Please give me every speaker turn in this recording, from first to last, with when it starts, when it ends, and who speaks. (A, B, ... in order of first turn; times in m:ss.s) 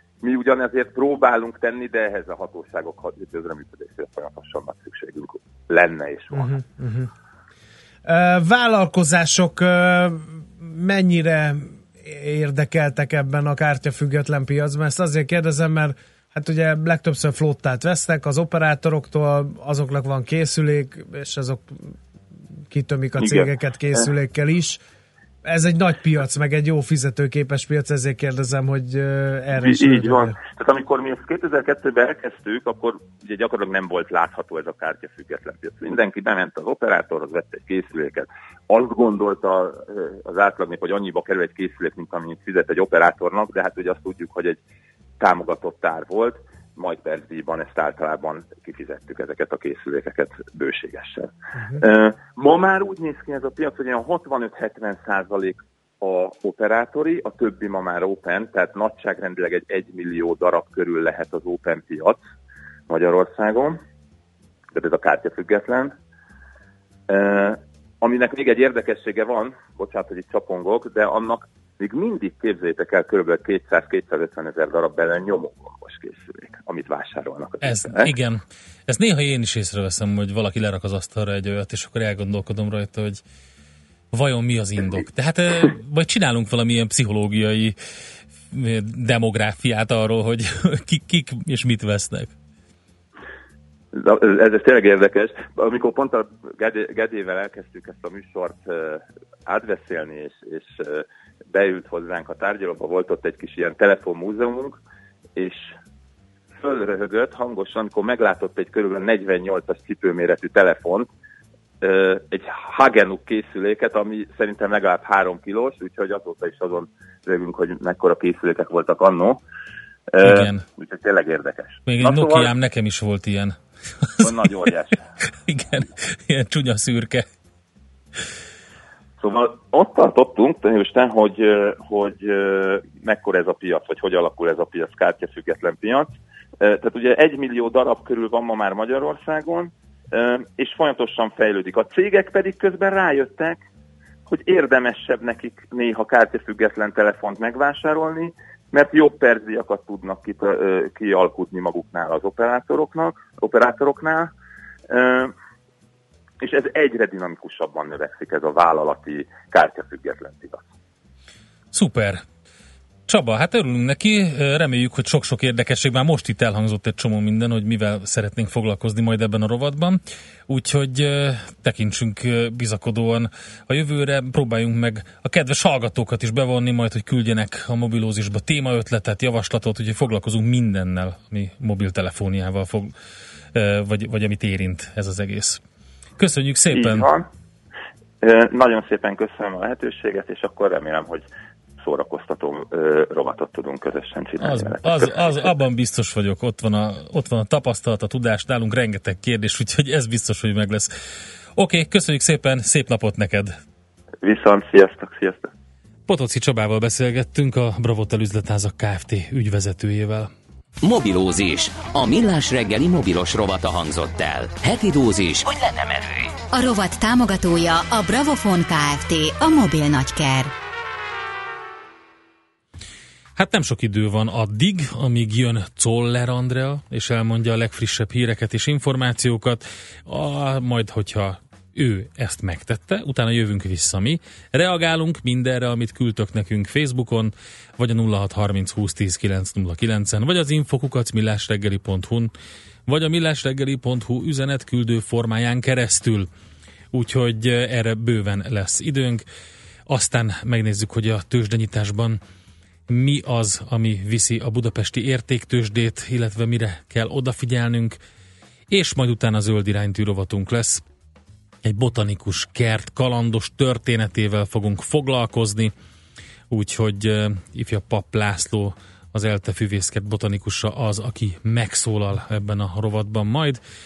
0:00.2-0:06.6 A
0:06.3-0:07.1 B
0:08.1-0:21.9 B
0:22.7-0:24.8 B
0:23.2-0:24.1 A
0:25.4-0:30.4 B
0:29.5-0:44.6 A
0:45.2-1:02.2 A
0:51.6-0:51.8 B
1:02.9-1:03.8 A
1:04.7-1:06.0 A
1:07.1-1:18.1 A
1:17.6-1:23.2 C
1:24.1-1:27.8 C
1:28.5-1:32.3 C
1:33.9-1:44.8 A
1:45.4-1:45.7 A
1:46.6-1:51.1 A
1:51.8-1:59.4 A
2:00.1-2:02.5 A
2:00.2-2:00.6 C
2:01.9-2:04.7 C
2:04.2-2:05.0 A
2:05.4-2:07.3 C
2:09.2-2:23.6 A
2:24.3-2:34.3 A
2:34.9-2:35.3 A
2:36.4-2:40.7 A
2:41.7-2:42.2 C
2:43.1-3:02.9 C
3:03.5-3:05.6 C
3:06.2-3:07.1 C
3:06.7-3:07.3 A
3:08.2-3:11.3 A
3:11.8-3:15.4 A
3:14.4-3:20.9 C
3:21.6-3:23.5 C
3:24.2-3:25.5 A
3:26.1-3:30.3 C
3:30.8-3:36.3 D
3:36.5-3:40.5 E
3:43.4-4:02.3 C
4:02.9-4:06.3 C
4:06.9-4:09.2 C
4:09.9-4:12.2 C
4:12.9-4:18.0 C
4:18.7-4:20.8 C
4:21.6-4:25.7 C
4:26.5-4:33.6 C